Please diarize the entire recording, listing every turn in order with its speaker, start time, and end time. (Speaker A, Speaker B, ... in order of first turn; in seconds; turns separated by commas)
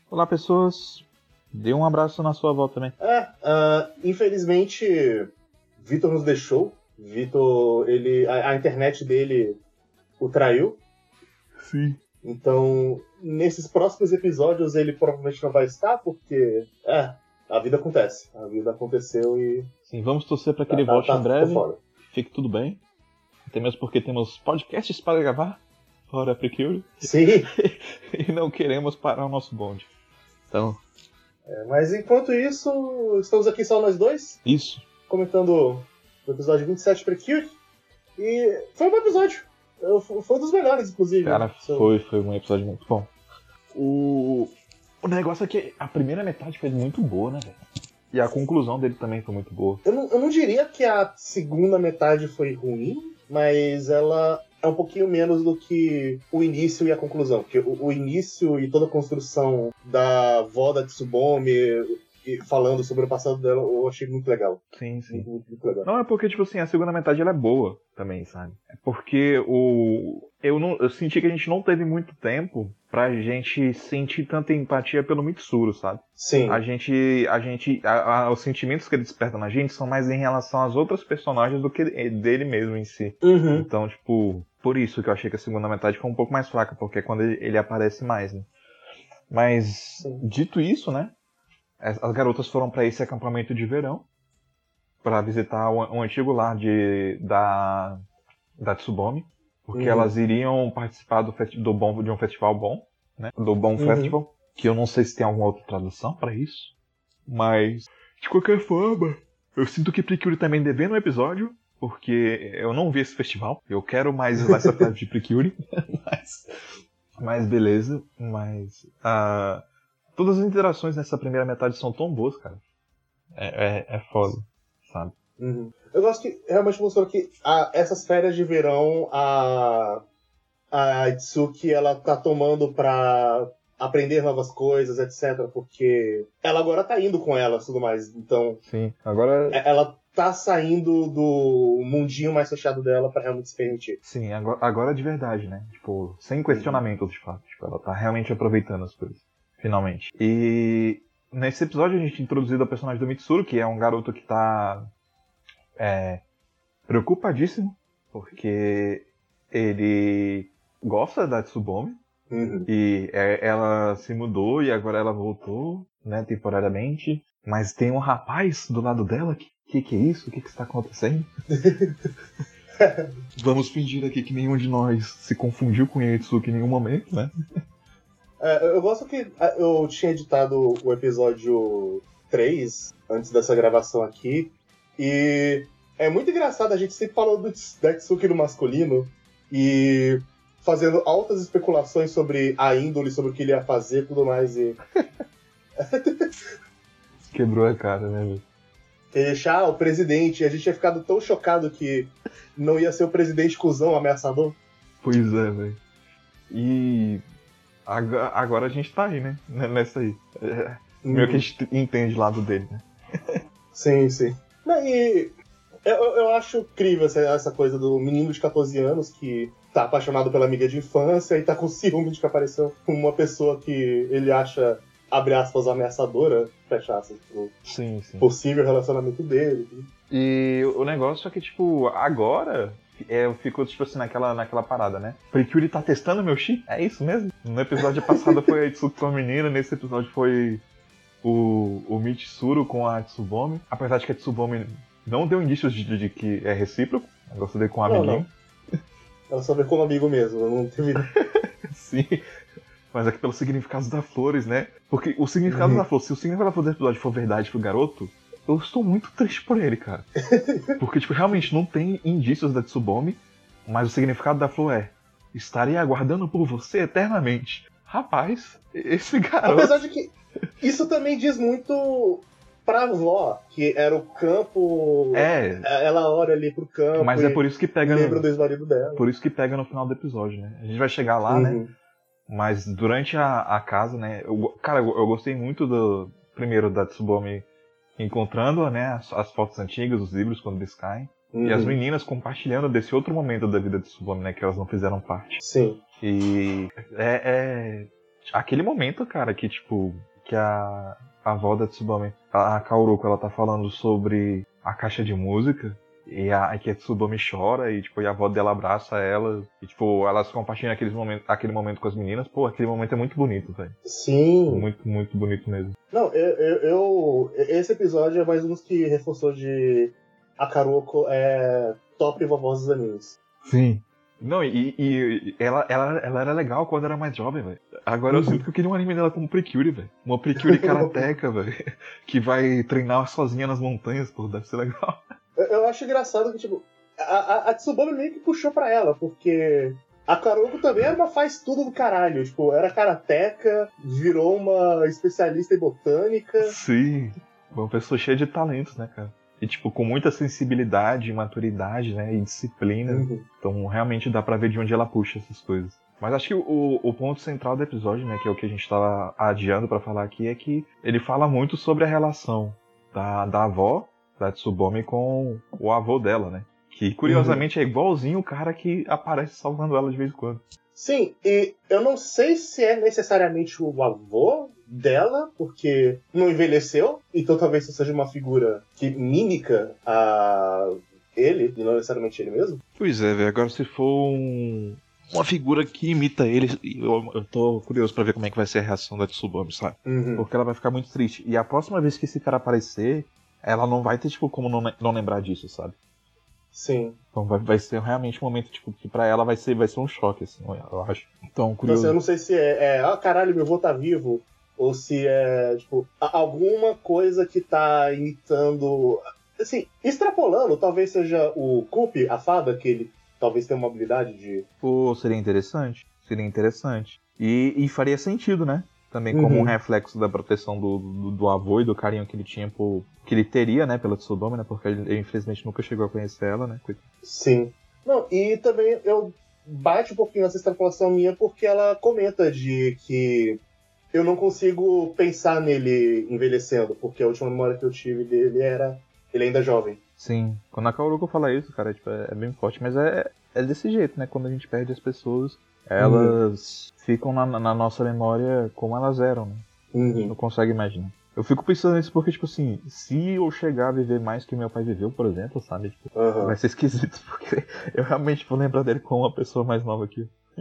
Speaker A: 0.1-2.9, Speaker B: 3.0-9.6, Speaker B: 10.2-10.8, Speaker A: 11.6-12.0, Speaker B: 12.2-19.7, Speaker A: 19.9-22.8, Speaker B: 20.7-21.8, Speaker A: 23.5-29.9, Speaker B: 27.0-27.5, Speaker A: 30.5-30.8, Speaker B: 31.5-34.4, Speaker A: 34.4-34.8, Speaker B: 35.1-37.5, Speaker B: 38.2-41.9, Speaker A: 41.2-43.1, Speaker A: 43.7-44.5, Speaker A: 45.0-47.6, Speaker A: 48.1-49.8, Speaker B: 49.8-65.9, Speaker A: 64.7-65.3, Speaker A: 65.8-88.5, Speaker B: 76.2-76.6, Speaker B: 83.2-83.7, Speaker A: 89.3-91.1, Speaker A: 91.8-94.1, Speaker A: 95.0-98.0, Speaker A: 98.6-106.7, Speaker B: 99.7-100.1, Speaker B: 103.8-104.2, Speaker A: 107.3-116.5, Speaker A: 117.2-119.6, Speaker A: 120.2-122.6, Speaker A: 123.4-125.1, Speaker B: 125.4-130.0, Speaker B: 130.7-138.6, Speaker A: 138.6-139.6, Speaker B: 139.5-144.0, Speaker A: 144.0-154.8, Speaker B: 146.5-146.8, Speaker A: 155.8-156.2, Speaker A: 156.9-162.0, Speaker B: 162.3-162.7, Speaker A: 162.7-171.3, Speaker B: 171.6-172.1, Speaker B: 172.8-173.1, Speaker A: 173.4-177.3, Speaker B: 178.4-194.8, Speaker B: 195.8-196.3, Speaker A: 197.3-198.4, Speaker B: 199.1-204.6, Speaker A: 205.0-205.8, Speaker A: 206.5-207.2, Speaker A: 207.9-212.8, Speaker B: 211.0-211.5, Speaker B: 213.7-215.3, Speaker B: 215.8-227.6, Speaker A: 227.7-228.3, Speaker B: 228.2-229.9, Speaker A: 230.1-240.6, Speaker B: 238.1-238.4, Speaker A: 241.2-248.3, Speaker B: 247.8-248.3, Speaker B: 249.3-251.1, Speaker A: 251.7-252.2, Speaker A: 252.9-260.1, Speaker B: 255.5-255.8, Speaker B: 260.3-260.8, Speaker A: 260.8-269.8, Speaker B: 269.4-279.1, Speaker A: 275.1-275.7, Speaker A: 276.9-278.2, Speaker A: 278.9-281.6, Speaker B: 281.3-281.7, Speaker A: 282.3-287.4, Speaker A: 288.0-295.4, Speaker B: 291.3-291.8, Speaker B: 295.4-295.8, Speaker A: 296.0-313.8, Speaker B: 313.8-314.7, Speaker A: 314.5-315.7, Speaker B: 315.9-323.1, Speaker A: 323.4-335.0, Speaker B: 328.1-328.4, Speaker B: 330.4-331.0, Speaker B: 335.4-346.6, Speaker A: 346.4-370.4, Speaker B: 352.9-353.2, Speaker B: 367.1-367.4, Speaker B: 370.8-382.6, Speaker A: 382.8-395.8, Speaker B: 389.9-390.3, Speaker B: 396.5-397.0, Speaker A: 397.1-401.9, Speaker B: 401.6-414.5, Speaker A: 414.6-426.8, Speaker B: 419.1-419.6, Speaker B: 427.0-433.4, Speaker B: 433.9-439.8, Speaker A: 440.0-449.4, Speaker B: 445.8-446.2, Speaker B: 449.7-450.1, Speaker A: 450.1-460.1, Speaker B: 455.9-456.4